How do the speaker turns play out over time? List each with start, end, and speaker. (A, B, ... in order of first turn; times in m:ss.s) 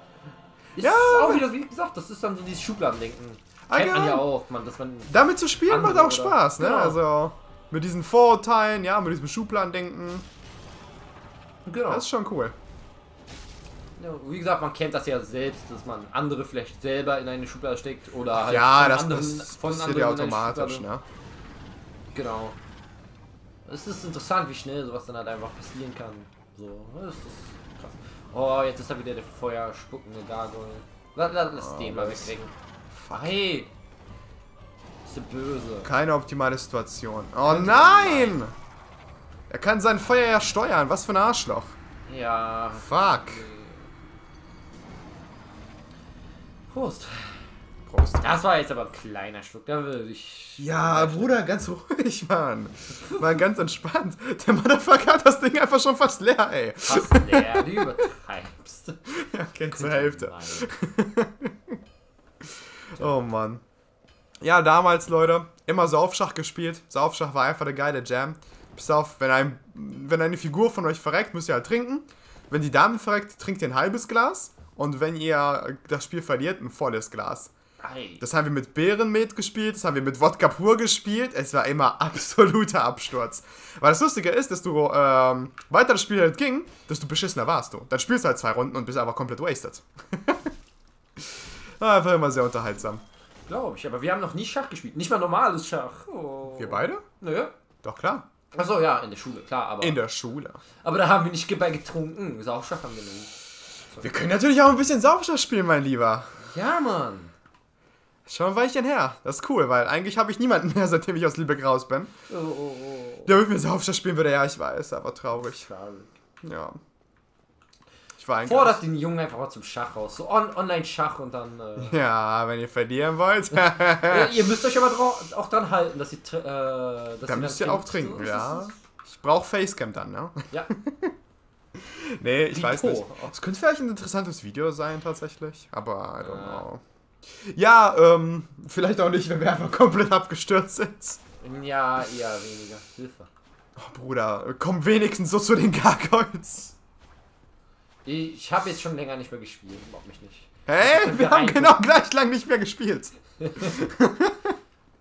0:00.8-0:07.0 A
0:00.8-0:01.5 B
0:03.7-0:04.2 B
0:05.1-0:10.3 B
0:11.6-0:12.1 A
0:11.9-0:12.5 B
0:14.0-0:20.9 A
0:18.4-0:21.0 B
0:22.1-0:22.6 A
0:23.7-0:32.5 A
0:31.6-0:32.3 B
0:32.9-0:33.4 B
0:33.1-0:33.7 A
0:35.0-0:35.9 A
0:35.8-0:38.5 B
0:37.4-0:38.4 A
0:39.5-0:41.8 B
0:42.1-0:43.9 A
0:42.8-0:43.4 B
0:46.7-0:47.5 A
0:47.9-0:48.2 B
0:48.2-0:51.4 A
0:50.6-0:57.9 B
0:56.9-0:59.0 A
0:59.1-1:01.8 B
0:59.7-1:00.7 A
1:02.5-1:03.6 B
1:04.4-1:17.5 B
1:17.8-1:18.2 A
1:18.2-1:30.5 B
1:31.2-1:33.0 B
1:33.5-1:37.5 A
1:36.6-1:37.0 B
1:37.8-1:38.3 B
1:38.5-1:40.0 A
1:39.8-1:40.6 B
1:40.8-1:43.3 A
1:43.9-1:44.2 A
1:44.0-1:46.4 B
1:46.4-1:47.3 A
1:48.3-1:52.1 B
1:52.3-1:53.3 A
1:53.3-1:55.7 B
1:55.4-1:56.1 A
1:56.4-1:56.8 B
1:58.2-1:58.8 B
1:58.4-2:02.0 A
2:01.8-2:04.4 B
2:03.5-2:08.7 A
2:07.3-2:11.1 B
2:11.8-2:21.2 B
2:12.5-2:13.4 A
2:16.2-2:16.6 A
2:21.4-2:23.3 A
2:23.8-2:26.8 B
2:28.0-2:31.8 A
2:30.7-2:34.6 B
2:33.4-2:33.8 A